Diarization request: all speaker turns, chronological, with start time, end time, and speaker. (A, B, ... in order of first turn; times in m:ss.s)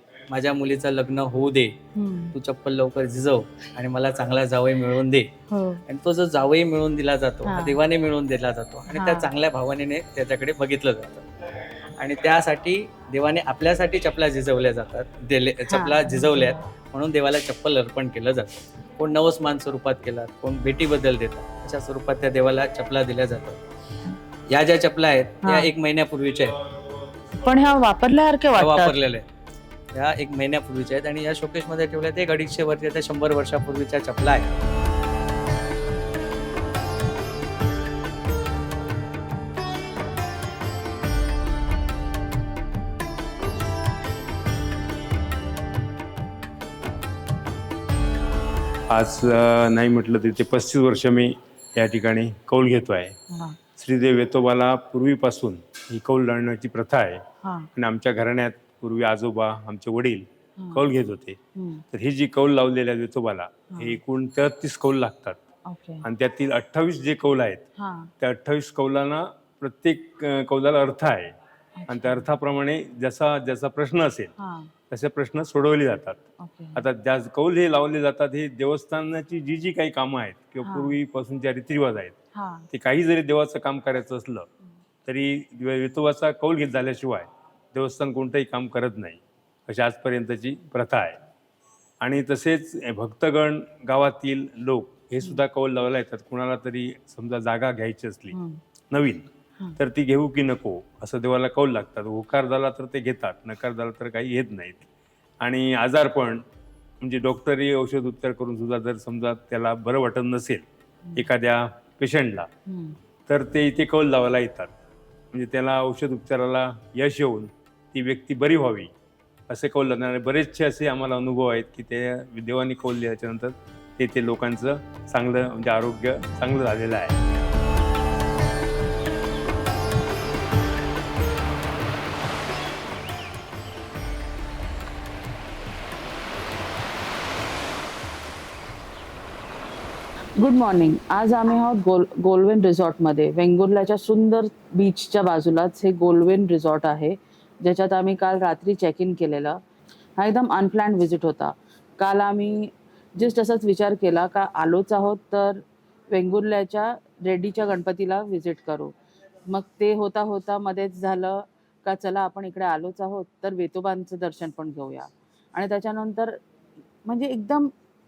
0:00.3-0:01.8 A
0:01.9-0:02.3 B
0:02.3-0:05.3 A
0:05.5-0:05.8 B
0:05.9-0:11.2 A
0:07.4-0:07.8 B
0:08.9-0:09.3 B
0:12.0-0:23.6 A
0:15.7-0:16.6 B
0:24.5-0:26.6 A
0:25.4-0:25.7 B
0:27.4-0:28.9 B
0:28.6-0:29.2 A
0:29.9-0:34.5 A
0:48.9-0:53.2 C
0:53.8-0:57.2 C
0:57.8-1:01.4 C
1:00.6-1:00.9 B
1:01.6-1:01.8 B
1:01.9-1:05.4 C
1:03.7-1:04.0 B
1:05.7-1:06.0 B
1:06.0-1:07.6 C
1:07.8-1:08.1 B
1:08.2-1:11.3 C
1:11.8-1:12.2 B
1:11.9-1:14.3 C
1:14.4-1:14.7 B
1:14.9-1:16.2 C
1:16.4-1:16.8 B
1:16.8-1:22.2 C
1:20.6-1:20.9 B
1:22.4-1:22.6 B
1:22.7-1:24.5 C
1:25.0-1:31.2 C
1:32.0-1:38.4 C
1:38.3-1:38.6 B
1:38.9-1:39.2 C
1:39.8-1:44.9 C
1:45.4-1:46.4 C
1:47.0-1:50.6 C
1:51.2-1:52.5 C
1:52.7-1:52.9 B
1:53.3-1:54.7 C
1:55.3-1:58.9 C
1:59.5-2:07.2 C
2:20.4-2:29.6 B
2:30.2-2:38.9 B
2:39.5-2:46.4 B
2:47.0-2:47.7 B